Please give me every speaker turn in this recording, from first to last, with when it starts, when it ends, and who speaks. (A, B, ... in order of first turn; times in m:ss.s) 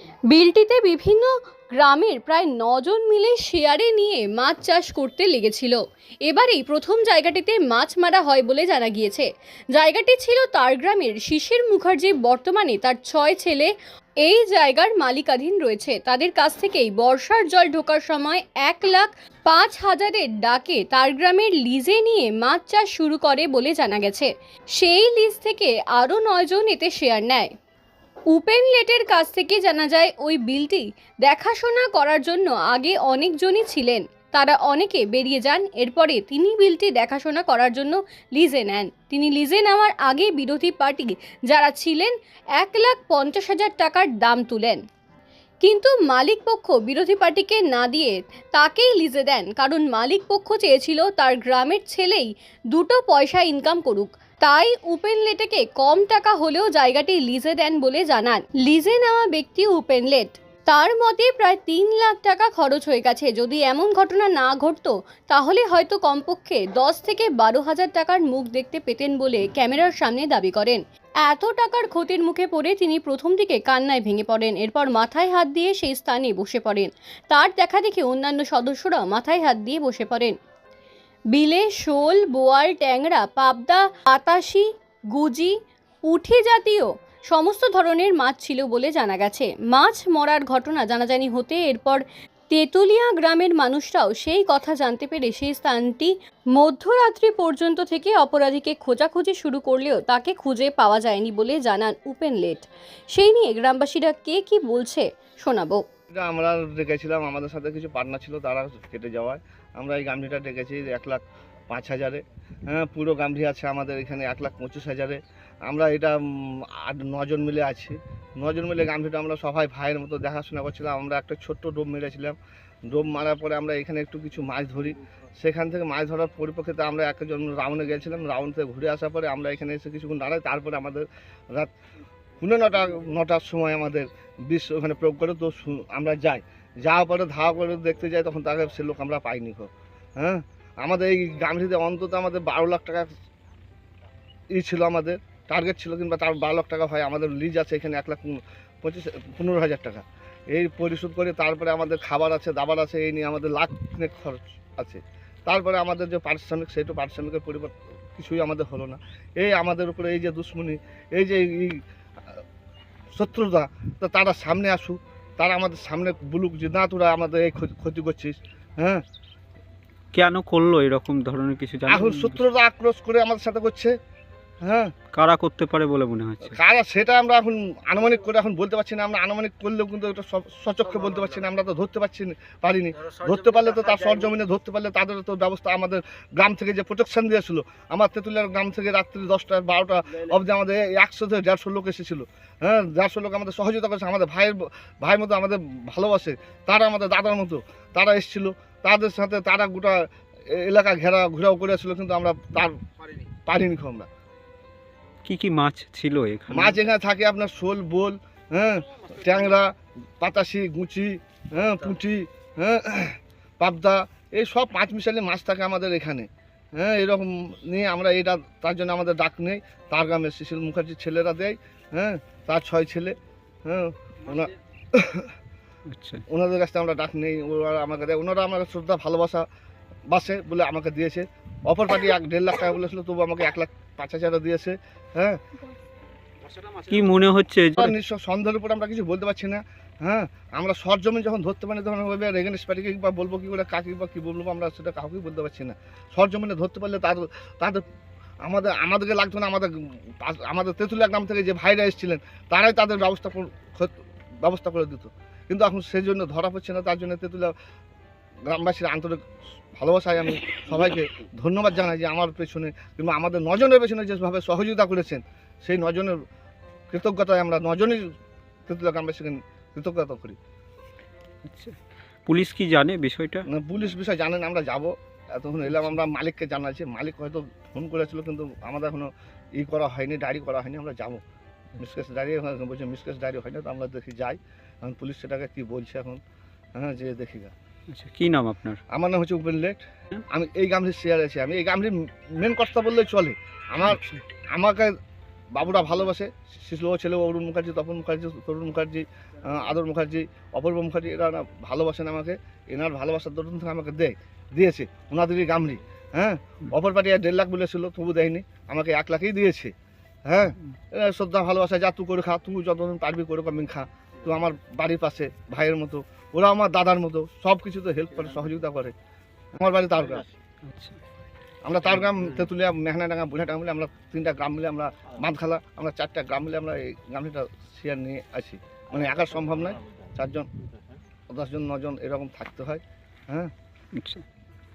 0:00.3-0:13.7 A
0:14.2-0:27.5 A
0:28.3-0:44.8 A
0:45.6-1:20.4 A
1:21.3-1:25.6 A
1:26.1-1:45.8 A
1:46.1-2:02.4 B
2:02.9-2:11.7 B
2:12.4-2:23.1 B
2:24.5-2:41.8 B
2:43.2-2:49.0 B
2:50.1-2:52.4 C
2:51.9-2:53.9 B
2:54.6-2:54.9 B
2:55.1-2:56.6 C
2:56.5-3:22.8 B
3:23.5-3:24.1 B
3:25.2-3:26.8 C
3:26.5-3:43.2 B
3:43.7-3:45.3 B
3:45.9-3:46.2 C
3:46.3-3:49.4 B
3:50.1-3:55.4 B
3:56.8-3:58.0 C
3:57.8-4:07.8 B
4:08.4-4:17.5 B
4:18.5-4:19.2 B
4:19.8-4:26.2 B
4:26.9-4:28.1 B
4:28.7-4:30.4 B
4:31.4-4:33.4 C
4:33.5-4:41.2 B
4:41.8-4:46.2 B
4:46.8-4:47.5 B
4:47.9-4:48.8 C
4:48.9-4:54.0 B
4:53.8-4:54.2 C
4:54.5-4:55.0 B
4:55.5-5:09.7 B
5:10.3-5:18.9 B
5:19.6-5:20.3 B
5:20.6-5:21.0 C
5:21.6-5:30.5 B
5:31.3-5:33.5 B
5:34.0-5:34.2 C